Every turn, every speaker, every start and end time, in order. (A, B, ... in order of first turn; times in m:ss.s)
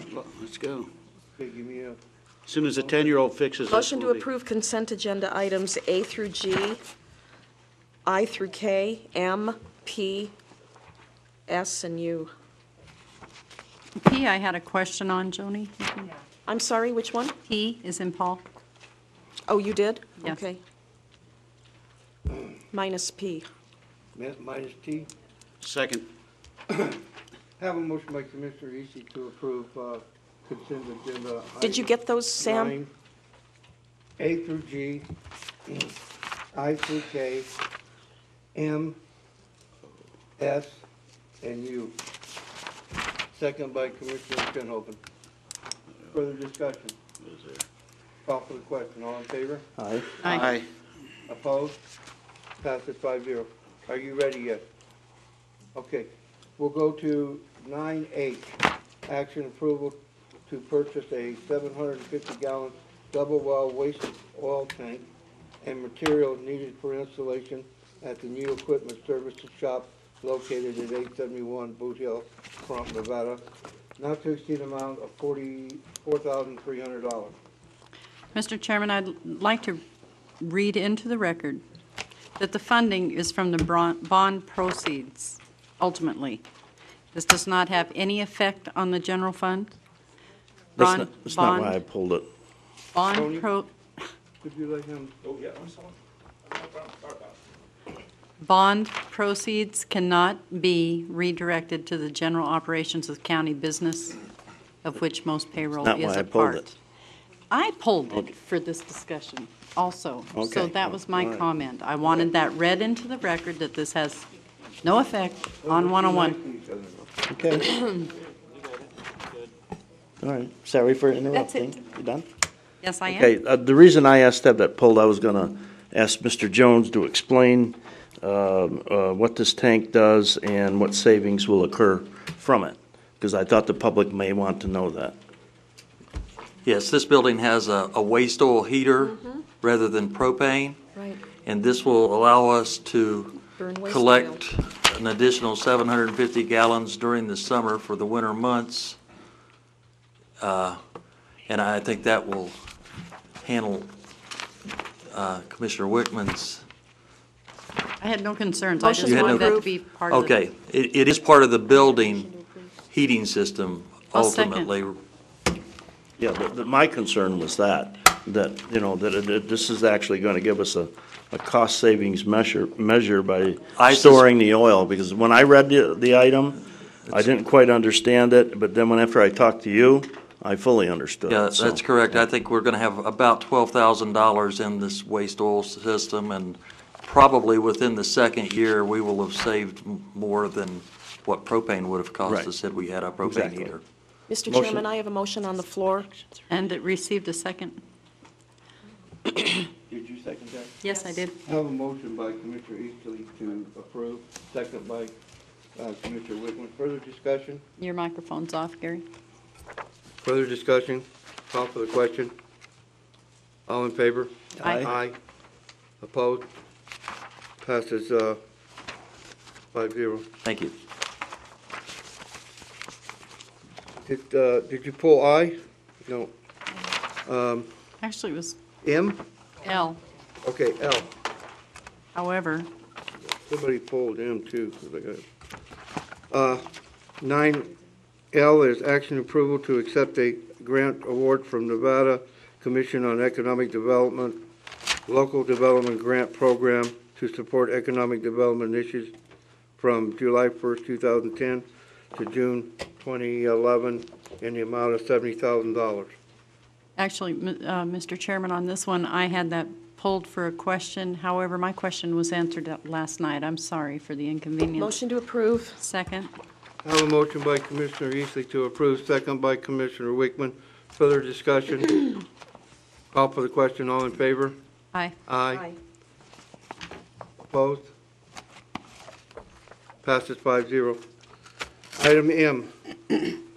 0:00.2-0:00.9 A
0:01.4-0:02.0 B
0:02.5-0:04.2 A
0:02.7-0:03.0 B
0:03.7-0:06.8 C
0:08.0-0:10.3 C
0:11.5-0:12.3 C
0:14.0-0:16.2 D
0:16.4-0:17.4 C
0:17.4-0:18.4 D
0:19.4-0:20.6 C
0:22.7-0:23.4 C
0:24.1-0:25.1 B
0:25.6-0:26.0 A
0:26.7-0:27.0 B
0:27.6-0:32.9 B
0:31.6-0:32.8 C
0:34.2-0:35.1 B
0:35.7-0:35.9 B
0:36.5-0:37.5 B
0:38.5-0:39.0 B
0:40.4-0:40.8 B
0:41.4-0:42.0 B
0:43.3-0:45.0 B
0:46.1-0:46.9 B
0:47.2-0:47.6 A
0:48.2-0:49.6 B
0:49.8-0:50.3 E
0:50.2-0:50.5 D
0:50.2-0:50.6 A
0:51.3-0:51.8 B
0:52.6-0:54.6 B
0:55.7-1:05.1 B
1:05.6-1:13.4 B
1:14.0-1:17.3 B
1:18.3-1:19.8 D
1:20.4-1:21.6 D
1:22.4-1:26.4 D
1:27.1-1:29.7 D
1:30.8-1:31.8 D
1:30.8-1:32.3 E
1:32.9-1:33.7 D
1:33.1-1:33.5 B
1:34.4-1:35.1 B
1:38.4-1:44.2 D
1:44.8-1:46.7 D
1:45.8-1:46.7 E
1:47.5-1:54.2 D
1:50.3-1:51.4 E
1:54.8-1:56.4 D
1:55.6-1:57.2 B
1:57.3-1:57.7 E
2:00.2-2:02.2 E
2:02.8-2:03.3 D
2:03.1-2:15.2 E
2:16.6-2:20.8 F
2:19.0-2:19.4 C
2:20.9-2:21.2 C
2:21.4-2:29.0 F
2:23.6-2:24.4 C
2:30.4-2:30.8 F
2:31.5-2:32.6 F
2:33.4-2:33.9 F
2:35.1-2:36.6 F
2:38.0-2:40.4 D
2:38.8-2:39.6 C
2:39.0-2:42.3 F
2:41.7-2:42.7 C
2:42.9-2:45.0 F
2:44.1-2:44.7 D
2:46.2-3:02.2 E
2:53.8-2:54.2 F
3:01.3-3:13.8 F
3:13.2-3:13.8 E
3:14.3-3:16.1 C
3:14.5-3:14.8 E
3:16.5-3:17.8 D
3:19.8-3:20.8 B
3:20.8-3:21.4 D
3:21.4-3:25.1 B
3:25.8-3:27.6 B
3:27.8-3:29.0 D
3:30.2-3:32.3 B
3:33.7-3:35.2 B
3:36.0-3:36.5 B
3:37.6-3:38.4 B
3:39.7-3:40.2 B
3:40.4-3:40.7 F
3:44.0-3:46.3 B
3:47.2-3:47.7 B
3:48.0-3:48.6 D
3:48.8-3:49.2 B
3:49.6-3:50.0 D
3:50.4-3:51.1 B
3:52.1-3:52.7 D
3:53.5-3:55.2 B
3:56.3-3:56.7 B
3:57.2-3:57.7 B
3:58.3-4:04.4 B
4:05.1-4:09.1 B
4:09.8-4:16.1 B
4:17.0-4:25.0 D
4:24.8-4:25.8 C
4:25.8-4:26.3 D
4:26.8-4:32.2 B
4:33.1-4:34.6 B
4:35.2-4:35.7 B
4:37.5-4:37.9 B
4:40.0-4:41.0 B
4:42.0-4:43.2 B